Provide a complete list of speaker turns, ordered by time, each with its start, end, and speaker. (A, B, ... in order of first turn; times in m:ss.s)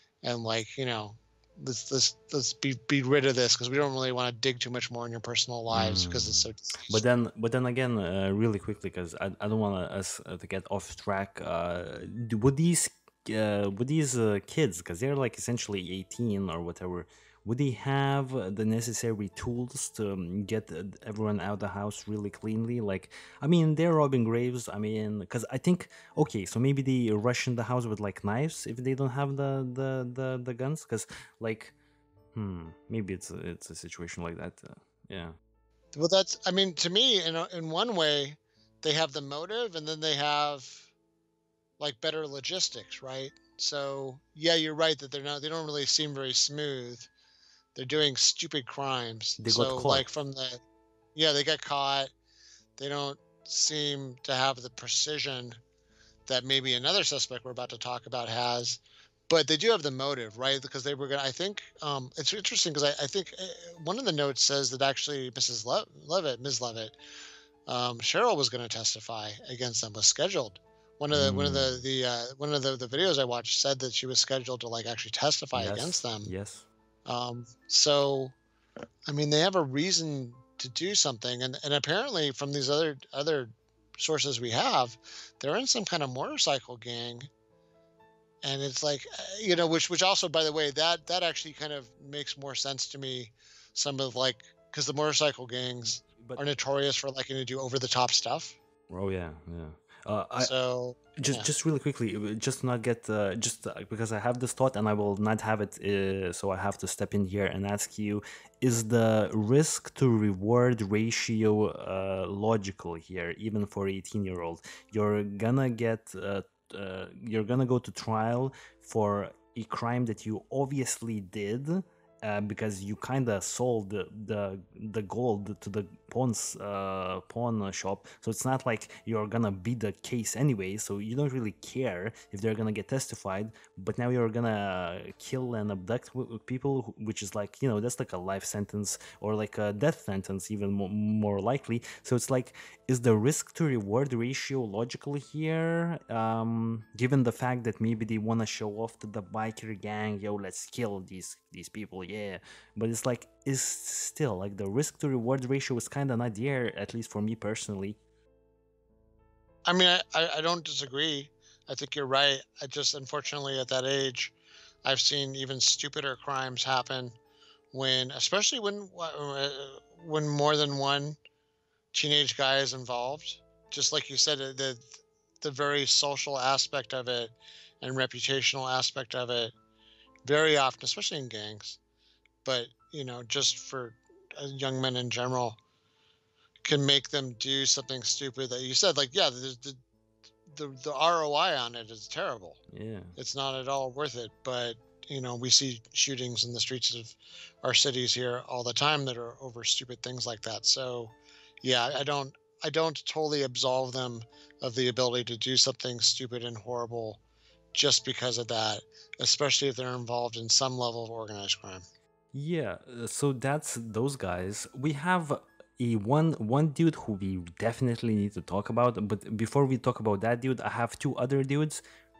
0:00.2-0:07.0 A
0:05.7-0:31.7 B
0:32.3-0:35.3 B
0:35.9-0:40.9 A
0:41.8-0:47.1 A
0:47.7-0:50.6 A
0:49.4-0:50.0 B
0:51.2-0:52.1 A
0:52.8-0:55.6 A
0:56.3-1:07.0 A
1:07.7-1:16.3 A
1:11.1-1:11.8 B
1:15.5-1:16.6 B
1:17.0-1:18.3 A
1:19.1-1:27.3 A
1:28.4-1:38.6 A
1:36.0-1:36.4 B
1:38.9-1:40.5 B
1:40.4-1:41.5 A
1:41.2-2:38.0 B
2:39.6-2:44.3 A
2:44.8-2:47.2 A
2:47.7-2:51.2 A
2:51.9-2:54.8 A
2:55.4-2:59.5 A
3:00.3-3:01.8 A
3:02.4-3:05.6 A
3:06.6-3:09.8 A
3:10.5-3:12.6 A
3:12.7-3:13.1 B
3:13.2-3:27.2 A
3:27.7-3:31.8 A
3:32.3-3:41.8 B